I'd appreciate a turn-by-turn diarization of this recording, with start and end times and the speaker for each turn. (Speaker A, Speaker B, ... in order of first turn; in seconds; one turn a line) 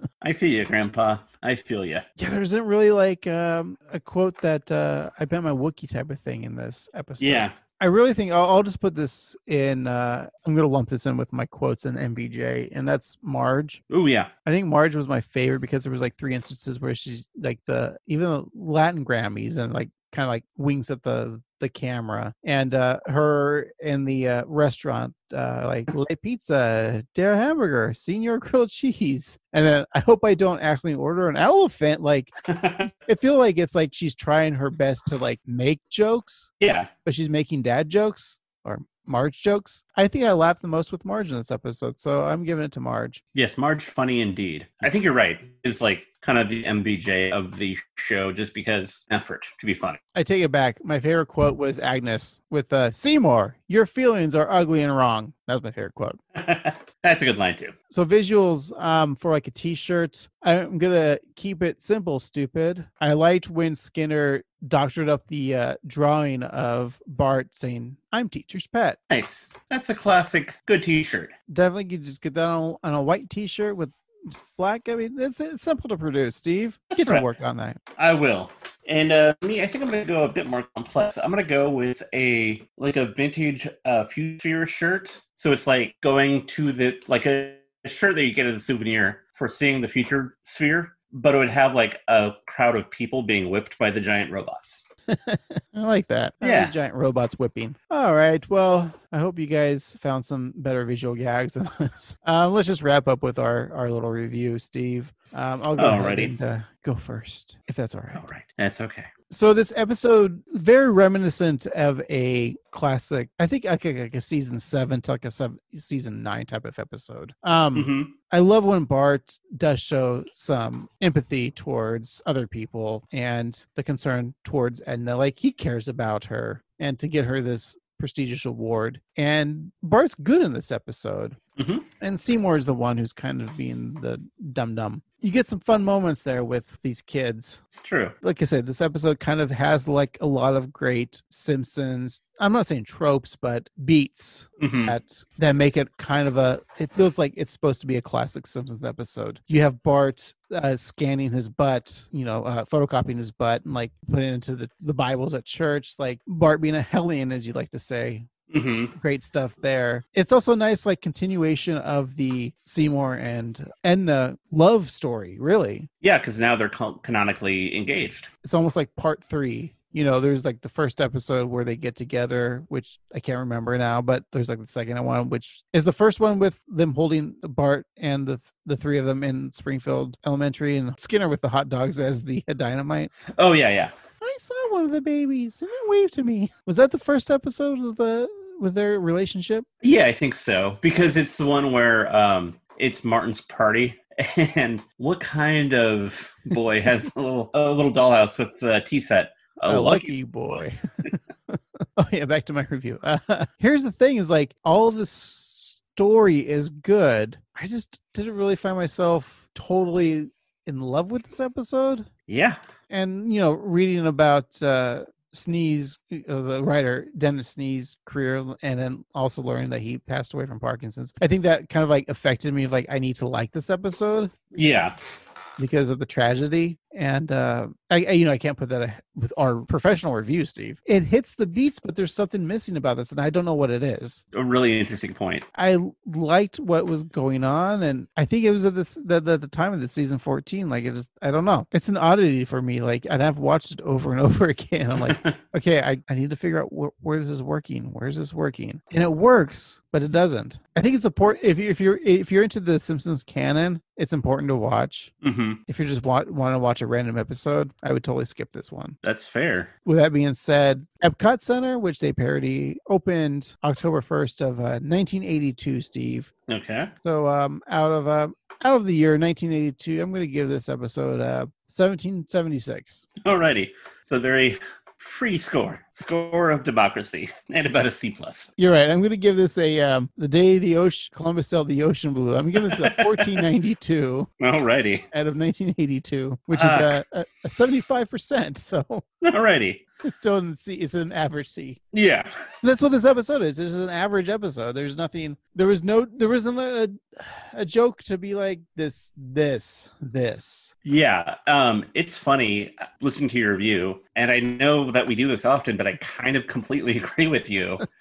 Speaker A: 0.2-2.1
Speaker B: 2.2-13.8
Speaker A: 7.2-7.6
Speaker A: 13.9-14.3
Speaker B: 14.4-36.5
Speaker A: 32.5-32.9
Speaker A: 36.6-36.9
Speaker B: 37.0-43.2
Speaker A: 43.4-50.0
Speaker B: 50.1-56.2
Speaker A: 56.4-57.7
Speaker B: 57.9-69.0
Speaker A: 69.1-71.3
Speaker B: 71.5-77.8
Speaker A: 76.9-77.3
Speaker A: 78.0-94.9
Speaker B: 95.1-108.2
Speaker A: 96.4-96.7
Speaker A: 105.8-106.3
Speaker A: 108.1-109.1
Speaker B: 109.3-131.4
Speaker A: 117.7-118.1
Speaker A: 131.6-131.9
Speaker B: 132.0-137.6
Speaker A: 137.7-138.2
Speaker B: 138.2-158.3
Speaker A: 144.6-145.0
Speaker A: 158.5-158.9
Speaker B: 158.9-165.9
Speaker A: 166.0-168.3
Speaker B: 168.4-183.1
Speaker A: 183.3-183.9
Speaker B: 184.2-189.7
Speaker A: 189.8-200.1
Speaker B: 199.7-200.8
Speaker B: 201.5-212.1
Speaker A: 212.3-212.6
Speaker B: 212.9-224.3
Speaker A: 224.5-225.0
Speaker B: 225.6-234.2
Speaker A: 234.3-235.5
Speaker B: 235.6-255.1
Speaker A: 245.0-245.4
Speaker A: 255.2-255.6
Speaker B: 255.7-259.0
Speaker A: 259.0-259.7
Speaker B: 259.9-266.3
Speaker A: 266.5-266.9
Speaker B: 267.0-273.1
Speaker A: 273.2-278.5
Speaker B: 278.6-284.3
Speaker A: 282.6-283.4
Speaker A: 284.4-285.1
Speaker B: 285.1-289.0
Speaker A: 286.5-287.0
Speaker A: 289.2-289.8
Speaker B: 290.0-291.8
Speaker A: 291.9-292.3
Speaker B: 292.6-300.7
Speaker A: 300.9-307.8